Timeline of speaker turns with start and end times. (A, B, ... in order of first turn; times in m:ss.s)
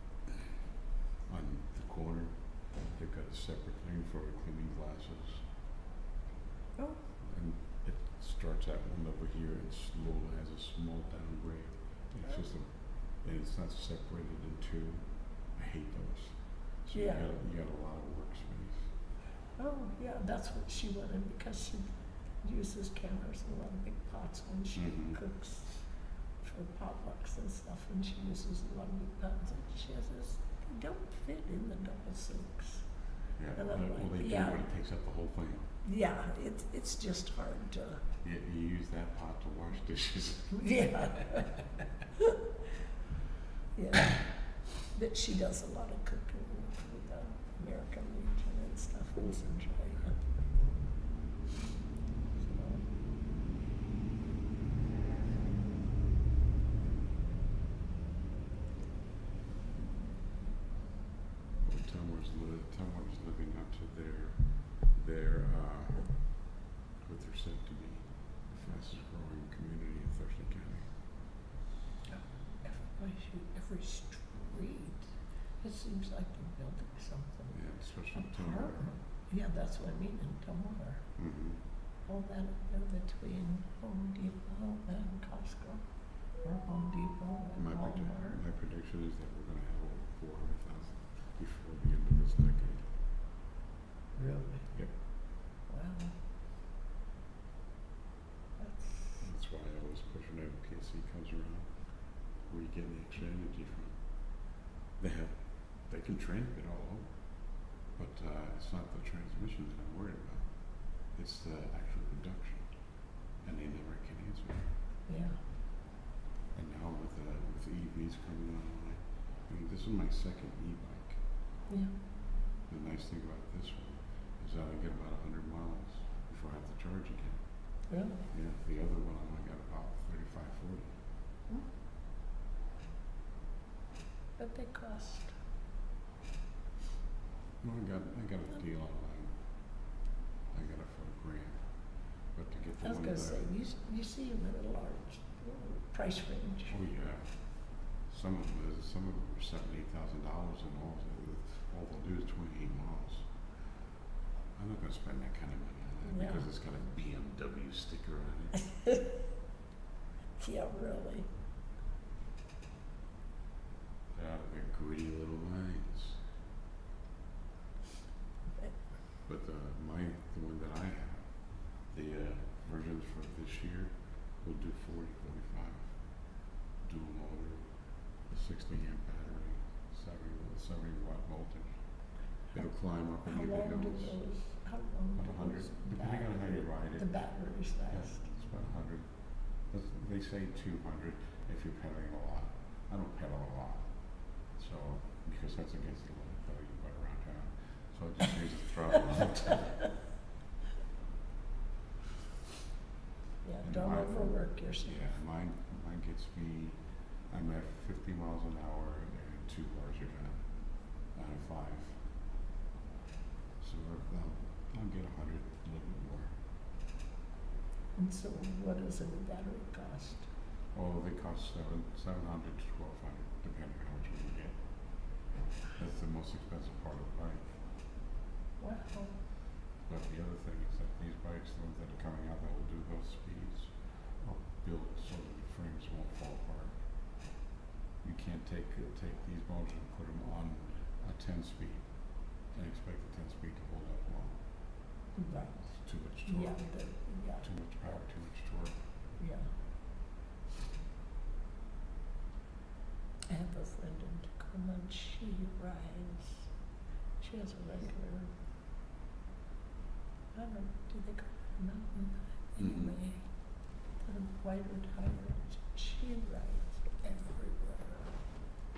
0:01.2-0:05.5 A
0:07.2-0:18.9 A
0:16.9-0:17.3 B
0:19.6-0:25.8 B
0:24.7-0:25.2 A
0:26.4-0:32.8 B
0:33.4-0:35.7 A
0:33.6-0:34.6 B
0:35.8-0:38.0 B
0:38.2-0:41.5 A
0:40.5-0:41.6 B
0:43.8-0:50.2 B
0:52.4-0:52.8 B
1:01.6-1:10.9 A
1:12.1-1:17.6 B
1:17.5-1:18.9 A
1:18.2-1:21.0 B
1:21.2-1:21.6 A
1:22.0-1:25.8 B
1:26.4-1:28.4 B
1:27.6-1:32.8 A
1:34.2-1:34.7 B
1:35.7-1:36.2 B
1:38.6-1:39.2 B
1:39.2-1:54.7 A
1:55.1-1:55.4 B
1:56.5-2:01.2 A
2:01.7-2:01.9 B
2:02.7-2:07.8 A
2:07.9-2:08.2 B
2:08.3-2:10.9 A
2:14.4-2:15.3 B
2:17.6-2:19.9 A
2:20.5-2:23.5 A
2:22.8-2:26.8 B
2:26.7-2:33.6 A
2:34.5-2:38.7 A
2:36.0-2:36.5 B
2:40.4-2:41.3 B
2:44.1-2:46.2 A
2:49.2-2:56.0 A
2:56.8-3:04.2 A
3:03.2-3:08.2 B
3:05.1-3:19.9 A
3:23.4-3:25.0 B
3:23.6-3:32.0 A
3:33.6-3:36.4 A
3:37.9-3:40.3 B
3:40.7-3:47.5 A
3:48.6-3:49.2 B
3:49.8-3:56.9 A
3:58.0-4:04.4 A
4:05.1-4:07.5 B
4:05.7-4:08.8 A
4:09.2-4:09.5 B
4:13.3-4:16.5 B
4:17.2-4:18.3 B
4:20.3-4:28.2 B
4:22.6-4:23.0 A